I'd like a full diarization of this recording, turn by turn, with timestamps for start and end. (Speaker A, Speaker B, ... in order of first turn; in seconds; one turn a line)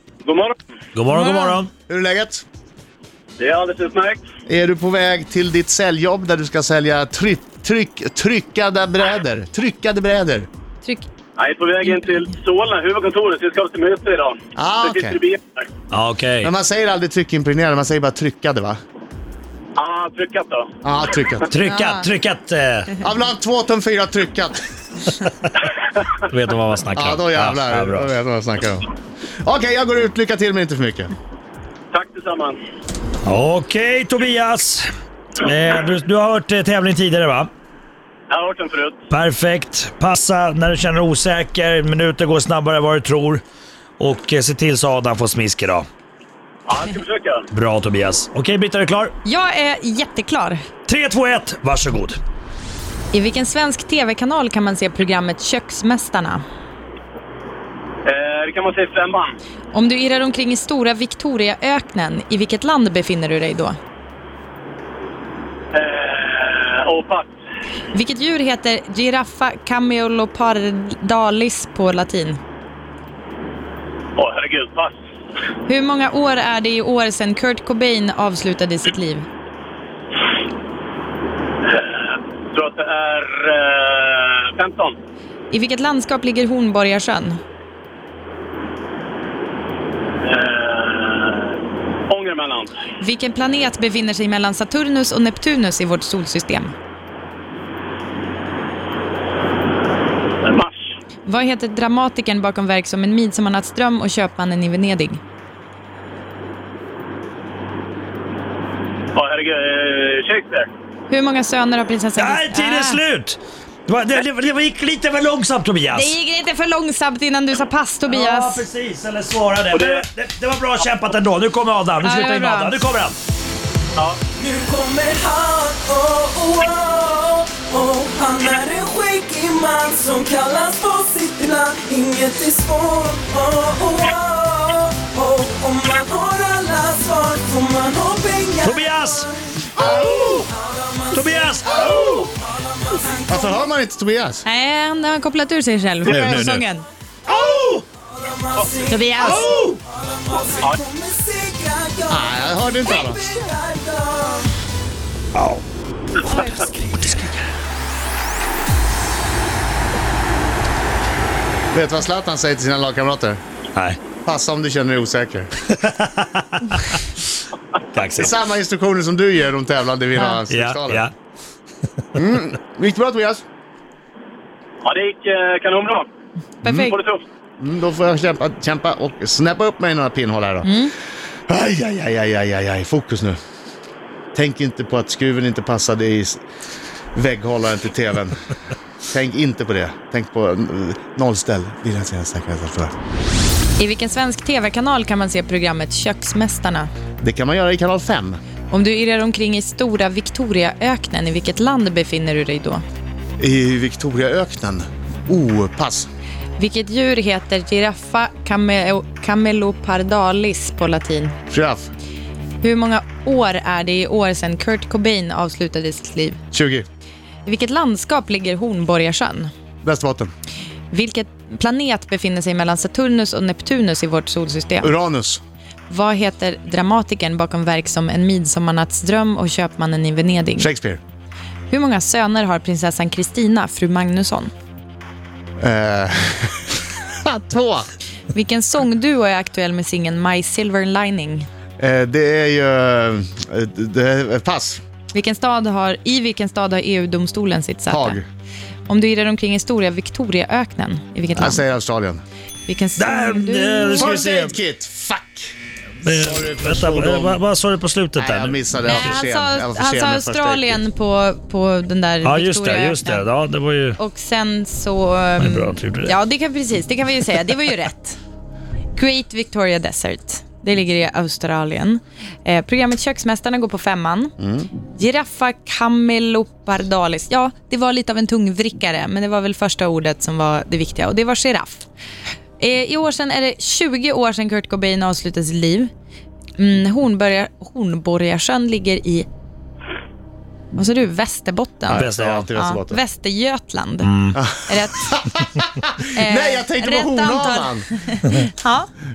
Speaker A: 0.2-0.6
Speaker B: 0.9-1.7
Speaker C: 1.2-1.5
Speaker D: 1.9-2.5
Speaker A: 3.4-4.2
Speaker D: 4.5-10.5
Speaker A: 11.4-15.7
Speaker D: 14.6-15.2
Speaker B: 15.9-16.5
Speaker D: 16.4-18.8
Speaker A: 19.8-20.7
Speaker D: 20.8-21.5
Speaker B: 21.5-22.9
Speaker C: 21.6-22.0
Speaker D: 23.0-24.6
Speaker B: 26.1-28.1
Speaker D: 26.9-28.9
Speaker D: 29.4-31.1
Speaker A: 31.9-32.6
Speaker B: 33.2-37.5
Speaker A: 38.3-39.0
Speaker B: 39.1-43.4
Speaker B: 44.0-45.9
Speaker A: 46.7-47.5
Speaker B: 47.5-49.1
Speaker C: 49.2-50.6
Speaker B: 50.9-52.2
Speaker C: 53.1-56.4
Speaker A: 58.1-59.4
Speaker C: 59.7-63.8
Speaker A: 65.7-67.3
Speaker C: 67.9-72.4
Speaker A: 74.2-75.0
Speaker C: 75.7-79.3
Speaker A: 81.7-85.0
Speaker C: 85.5-87.4
Speaker A: 90.2-91.5
Speaker A: 92.1-92.8
Speaker C: 93.0-96.7
Speaker A: 100.4-100.9
Speaker C: 101.3-105.2
Speaker A: 109.2-110.7
Speaker C: 111.1-113.0
Speaker B: 112.2-116.1
Speaker C: 115.9-118.6
Speaker B: 118.1-123.2
Speaker A: 119.7-120.0
Speaker C: 122.0-122.8
Speaker E: 124.3-143.6
Speaker B: 138.6-140.5
Speaker B: 141.1-142.3
Speaker D: 143.3-144.4
Speaker C: 144.4-146.9
Speaker A: 146.1-146.4
Speaker D: 146.1-146.6
Speaker B: 146.1-146.4
Speaker E: 147.3-154.5
Speaker B: 147.3-147.8
Speaker C: 148.9-149.3
Speaker B: 149.2-149.8
Speaker D: 152.1-153.2
Speaker B: 155.3-155.6
Speaker B: 156.6-157.3
Speaker D: 161.7-163.4
Speaker D: 164.2-165.5
Speaker B: 165.7-167.0
Speaker B: 167.9-168.3
Speaker D: 168.2-171.0
Speaker B: 170.5-171.1
Speaker D: 172.2-173.4
Speaker A: 174.8-176.1
Speaker C: 176.6-177.0
Speaker A: 176.7-177.2
Speaker D: 177.6-180.8
Speaker C: 180.6-180.9
Speaker D: 181.5-183.4
Speaker D: 184.3-186.4
Speaker D: 187.2-188.5
Speaker D: 189.1-192.9
Speaker C: 193.8-196.9
Speaker D: 197.2-198.4
Speaker C: 198.7-202.8
Speaker D: 203.4-206.1
Speaker C: 206.6-211.4
Speaker D: 211.5-211.9
Speaker C: 212.6-216.4
Speaker D: 216.5-216.9
Speaker C: 217.4-219.5
Speaker D: 219.8-220.3
Speaker C: 220.9-224.9
Speaker D: 224.8-225.4
Speaker C: 225.9-230.7
Speaker D: 230.6-231.0
Speaker C: 231.7-234.5
Speaker D: 235.6-237.9
Speaker C: 238.3-241.5
Speaker D: 241.8-244.8
Speaker C: 245.1-248.2
Speaker D: 247.9-248.2
Speaker C: 248.9-251.6
Speaker D: 251.3-252.2
Speaker C: 252.7-254.2
Speaker B: 253.0-254.6
Speaker D: 254.0-255.5
Speaker B: 256.0-259.2
Speaker D: 256.1-257.4
Speaker D: 258.2-260.8
Speaker C: 258.9-263.2
Speaker B: 262.2-264.0
Speaker C: 264.0-268.2
Speaker B: 265.4-266.1
Speaker C: 268.9-281.9
Speaker D: 274.4-274.7
Speaker C: 282.6-285.9
Speaker C: 286.6-289.3
Speaker C: 290.7-295.1
Speaker D: 291.9-293.0
Speaker B: 291.9-292.5
Speaker B: 294.0-294.4
Speaker D: 294.4-297.9
Speaker C: 296.1-298.9